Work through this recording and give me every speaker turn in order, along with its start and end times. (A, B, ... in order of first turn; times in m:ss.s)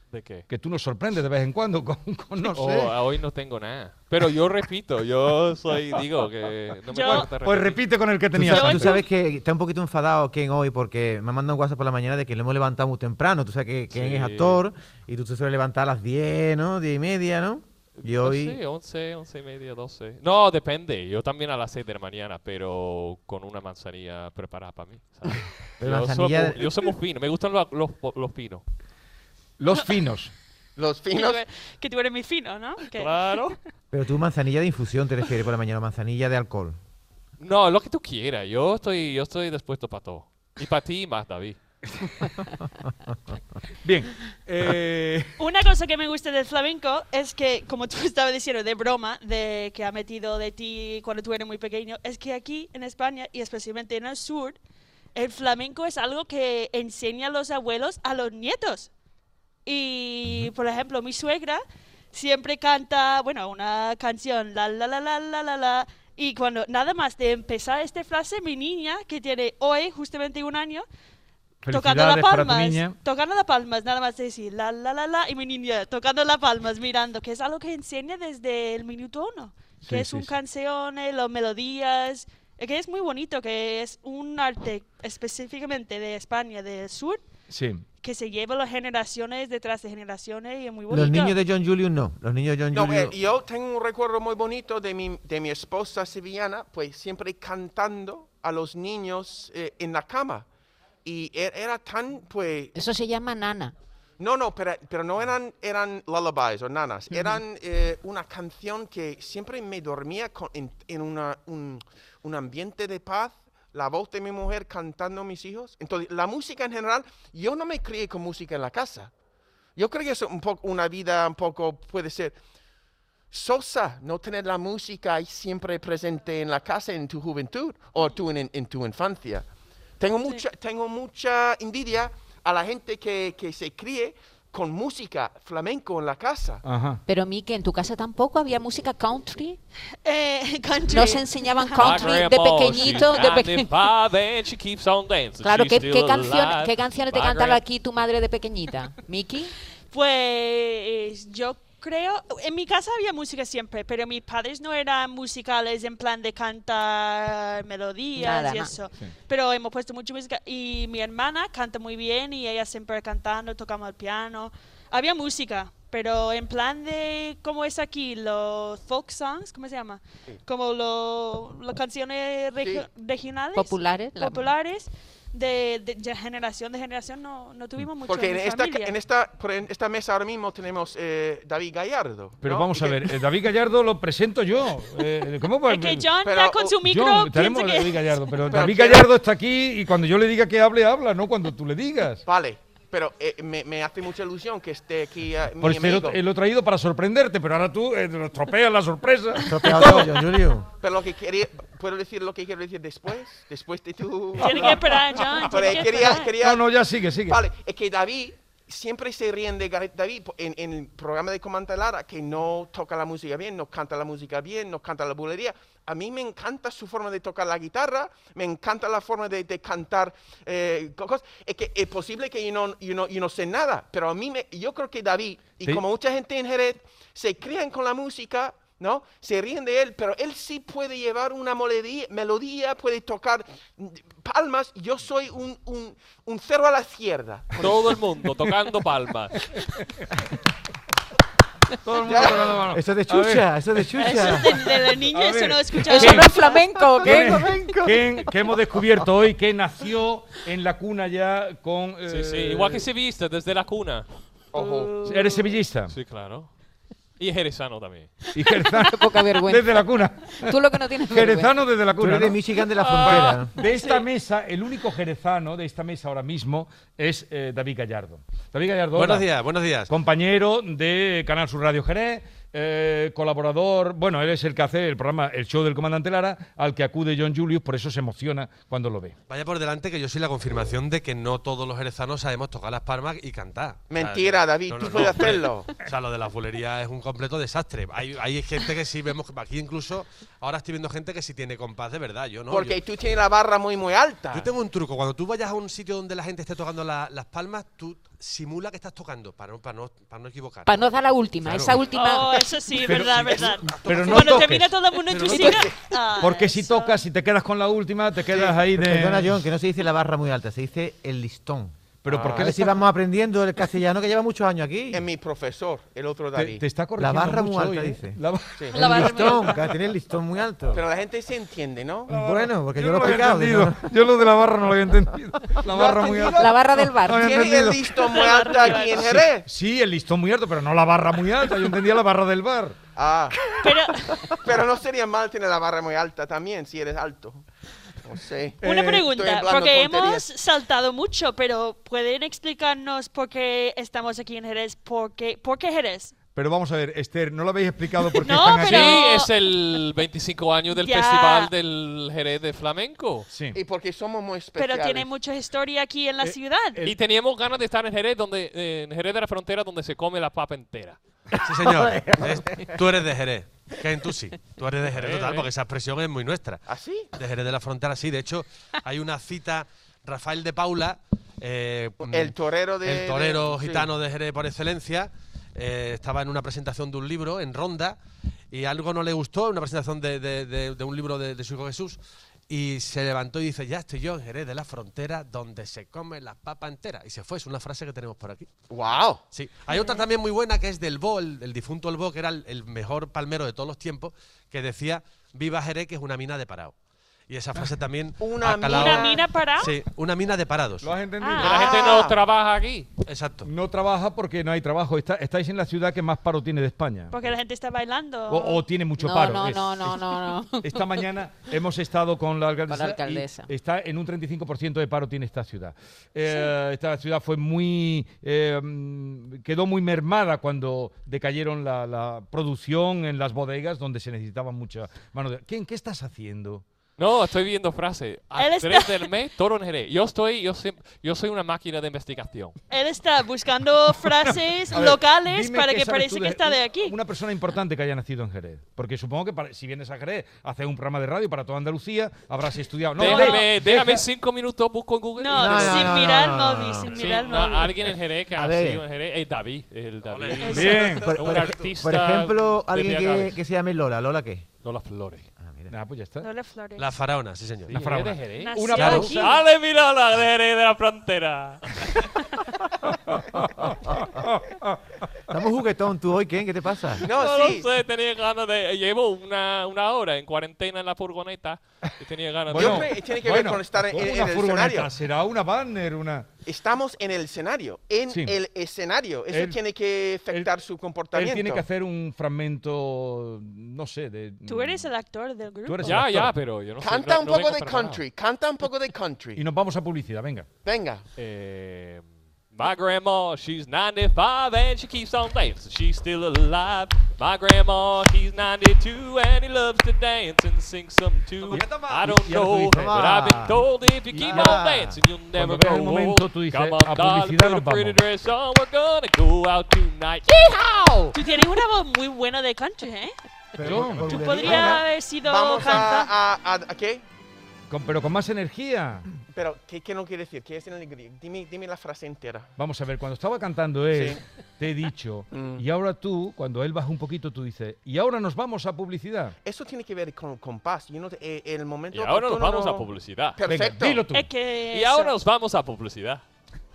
0:00.1-0:00.5 A
0:00.5-0:02.9 B
0:02.4-0:07.8 A
0:06.9-0:07.3 C
0:07.0-0:09.0 B
0:08.3-0:18.6 D
0:08.4-0:09.1 C
0:13.9-0:14.6 A
0:18.0-0:28.6 A
0:25.8-0:26.7 D
0:29.6-0:30.3 B
0:30.8-0:31.4 E
0:31.1-0:33.1 C
0:33.0-0:33.6 A
0:33.9-0:36.8 D
0:37.4-0:41.6 A
0:42.0-0:42.3 B
0:43.8-0:45.3 B
0:45.4-0:54.6 C
0:55.2-0:58.9 C
0:59.7-1:01.6 C
1:02.1-1:10.8 C
1:11.6-1:13.0 B
1:11.7-1:27.2 C
1:19.8-1:20.3 B
1:27.5-1:27.8 B
1:28.0-1:31.4 C
1:30.9-1:33.2 D
1:32.7-1:40.5 E
1:41.0-1:42.8 E
1:42.8-1:43.7 F
1:44.2-1:59.1 E
1:59.8-2:02.4 E
2:03.3-2:09.5 E
2:10.0-2:16.6 E
2:16.6-2:17.0 B
2:17.1-2:19.6 F
2:20.0-2:22.1 C
2:20.9-2:23.7 F
2:21.8-2:27.6 A
2:25.4-2:29.5 F
2:29.9-2:58.9 C
2:38.2-2:38.7 F
2:52.6-2:52.9 E
2:53.6-2:54.4 F
2:58.1-3:03.2 E
3:02.4-3:06.1 B
3:05.7-3:08.6 C
3:06.2-3:06.8 E
3:06.8-3:12.2 B
3:08.5-3:09.1 E
3:12.2-3:16.2 E
3:15.6-3:20.2 B
3:19.5-3:20.7 D
3:20.8-3:24.8 E
3:24.4-3:26.3 C
3:25.4-3:26.7 E
3:26.4-3:27.4 B
3:27.2-3:58.0 E
3:57.6-3:59.4 A
4:01.8-4:04.4 B
4:02.0-4:02.6 E
4:02.7-4:04.6 D
4:04.0-4:06.6 C
4:05.0-4:06.5 B
4:05.9-4:07.7 F
4:07.0-4:08.1 D
4:07.0-4:12.8 B
4:12.1-4:14.1 A
4:14.5-4:15.0 E
4:14.6-4:15.4 C
4:15.0-4:15.9 B
4:15.9-4:16.5 A
4:17.2-4:18.2 A
4:18.4-4:22.4 B
4:18.7-4:19.8 F
4:20.4-4:21.6 F
4:22.0-4:23.5 D
4:22.8-4:23.4 A
4:22.9-4:29.3 B
4:23.6-4:24.0 C
4:28.9-4:29.9 G
4:29.9-4:39.2 B
4:39.3-4:52.8 G
4:43.9-4:45.8 E
4:52.5-4:54.5 E
4:54.3-5:00.8 G
5:00.6-5:02.5 F
5:01.4-5:01.8 G
5:01.9-5:07.0 C
5:02.8-5:09.3 B
5:03.9-5:04.3 E
5:05.2-5:05.7 E
5:08.3-5:08.6 E
5:08.7-5:11.8 D
5:12.0-5:12.7 B
5:12.1-5:12.7 E
5:12.3-5:15.1 D
5:14.9-5:16.6 E
5:16.4-5:19.4 B
5:17.0-5:18.2 D
5:18.7-5:19.5 C
5:18.7-5:20.8 D
5:20.7-5:22.1 E
5:22.1-5:23.8 D
5:22.1-5:32.8 B
5:25.6-5:29.5 E
5:26.3-5:27.3 F
5:28.1-5:29.1 C
5:33.0-5:33.5 E
5:33.6-5:34.4 C
5:34.4-5:37.4 E
5:38.0-5:40.3 E
5:38.6-5:39.1 B
5:38.6-5:46.1 C
5:46.4-5:49.1 B
5:48.2-5:49.3 C
5:48.6-5:53.3 A
5:50.7-5:51.5 C
5:53.3-5:53.6 B
5:53.5-5:55.1 E
5:54.6-5:56.8 C
5:56.2-5:57.0 B
5:56.8-6:01.0 A
6:01.4-6:02.8 B
6:01.4-6:06.6 G
6:05.0-6:05.5 A
6:06.7-6:07.1 E
6:07.2-6:18.0 G
6:12.1-6:13.9 E
6:18.5-6:28.5 G
6:28.7-6:29.2 E
6:29.3-6:36.8 G
6:29.7-6:30.0 C
6:37.3-6:40.9 G
6:38.2-6:39.2 E
6:38.7-6:39.7 C
6:40.8-6:41.6 B
6:41.2-6:41.6 C
6:41.4-6:42.2 E
6:41.5-6:42.9 A
6:43.1-6:43.5 G
6:43.4-6:47.1 B
6:47.1-6:48.6 C
6:48.3-7:06.6 B
6:49.0-6:51.0 F
6:52.6-6:53.5 F
6:56.2-6:56.5 C
7:07.0-7:12.6 A
7:08.4-7:09.0 C
7:12.7-7:17.0 C
7:14.2-7:24.0 B
7:23.0-7:26.1 A
7:23.0-7:23.4 C
7:25.2-7:27.7 C
7:25.3-7:27.0 D
7:26.9-7:33.4 A
7:28.4-7:28.8 D
7:30.0-7:30.6 G
7:30.4-7:30.9 C
7:30.5-7:31.1 B
7:30.5-7:31.7 E
7:31.0-7:34.5 D
7:34.6-7:35.3 A
7:35.4-7:35.7 D
7:35.7-7:36.3 B
7:36.2-7:36.9 C
7:36.8-7:37.8 G
7:37.7-7:42.1 A
7:37.7-7:39.2 B
7:38.4-7:39.4 C
7:38.8-7:39.1 G
7:42.9-7:44.8 B
7:45.3-7:47.1 D
7:47.0-7:47.7 E
7:47.0-7:52.9 A
7:52.5-7:56.3 B
7:52.5-7:54.9 E
7:56.5-8:01.6 E
7:58.1-7:58.4 B
7:59.3-7:59.6 B
8:01.1-8:04.9 B
8:04.5-8:06.0 C
8:05.7-8:06.4 B
8:05.8-8:08.0 A
8:06.8-8:09.4 E
8:09.4-8:10.5 B
8:10.6-8:11.0 E
8:11.2-8:30.5 A
8:21.5-8:23.2 B
8:21.5-8:21.9 G
8:22.1-8:23.6 D
8:24.1-8:24.7 B
8:24.2-8:25.0 D
8:25.3-8:28.0 B
8:30.6-8:31.1 D
8:31.1-8:33.1 C
8:33.6-8:34.8 D
8:33.6-8:34.8 B
8:33.9-8:36.1 C
8:35.2-8:37.0 E
8:37.7-8:39.1 B
8:39.3-8:42.5 E
8:42.6-8:49.3 B
8:43.9-8:44.2 E
8:45.3-8:45.6 E
8:49.4-8:54.0 E
8:51.9-8:53.4 A
8:53.5-8:54.3 B
8:54.1-8:55.1 C
8:54.7-8:56.2 A